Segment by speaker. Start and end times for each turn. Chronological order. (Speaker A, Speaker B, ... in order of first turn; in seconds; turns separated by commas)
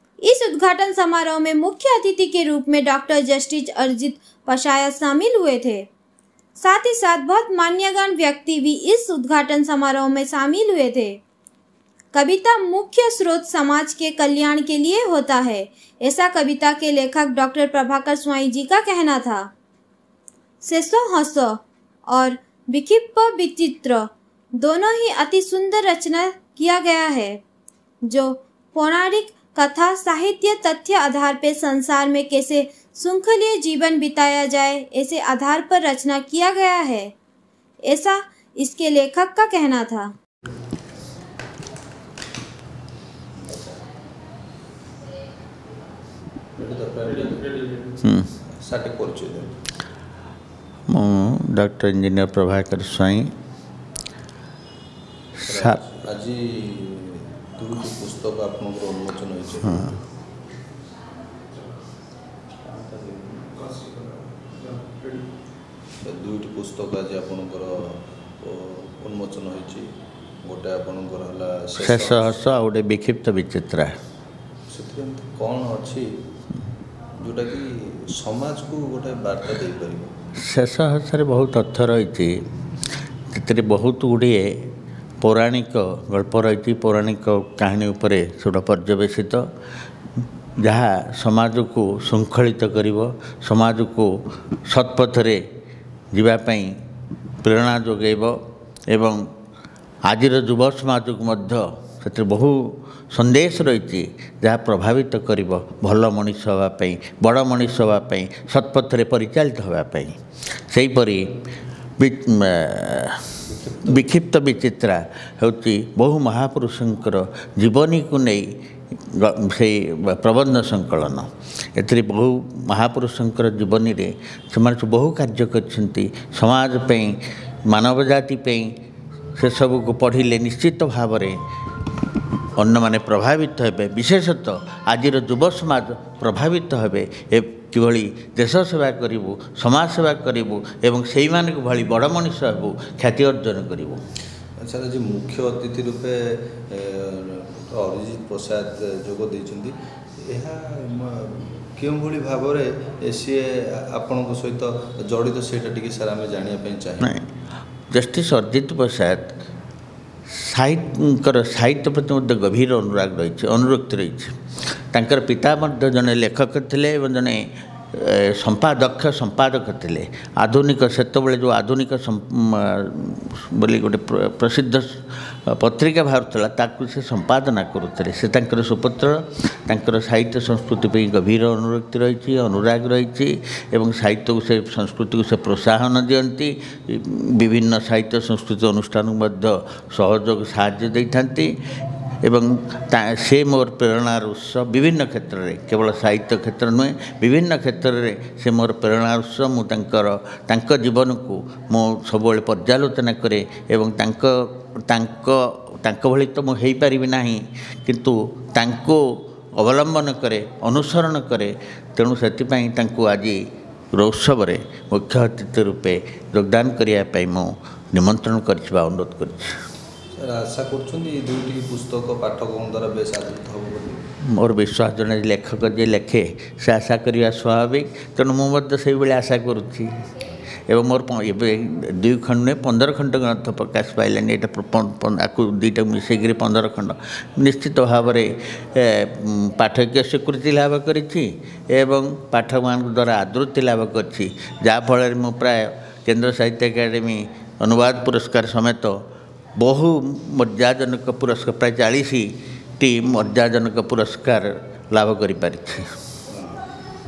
Speaker A: 0.2-5.9, Speaker A: 6.6-11.2, Speaker A: 12.1-19.5, Speaker A: 20.6-27.4, Speaker A: 28.0-37.1, Speaker A: 37.8-40.1, Speaker B: 43.4-43.8, Speaker B: 46.6-47.9, Speaker C: 48.0-48.3, Speaker B: 48.5-49.6, Speaker C: 50.9-53.3, Speaker B: 55.4-60.0, Speaker C: 55.5-55.8, Speaker B: 62.6-65.0, Speaker B: 66.0-69.8, Speaker B: 70.4-72.3, Speaker C: 71.8-73.9, Speaker B: 74.7-76.1, Speaker B: 77.2-80.1, Speaker C: 80.4-82.3, Speaker C: 83.3-84.7, Speaker C: 85.2-89.5, Speaker C: 90.6-94.1, Speaker C: 94.7-95.4, Speaker C: 96.1-96.7, Speaker C: 97.4-98.3, Speaker C: 98.9-99.2, Speaker C: 100.0-110.1, Speaker C: 110.7-111.3, Speaker C: 112.0-128.7, Speaker B: 113.6-114.0, Speaker C: 129.4-131.4, Speaker C: 132.6-144.0, Speaker B: 144.6-157.1, Speaker C: 157.0-157.3, Speaker C: 157.9-159.3, Speaker C: 160.3-164.3, Speaker C: 164.9-191.5, Speaker C: 192.2-213.4, Speaker C: 213.9-219.5, Speaker B: 220.1-224.0, Speaker C: 224.2-229.9, Speaker C: 230.7-248.9, Speaker C: 249.6-255.9, Speaker B: 256.3-256.6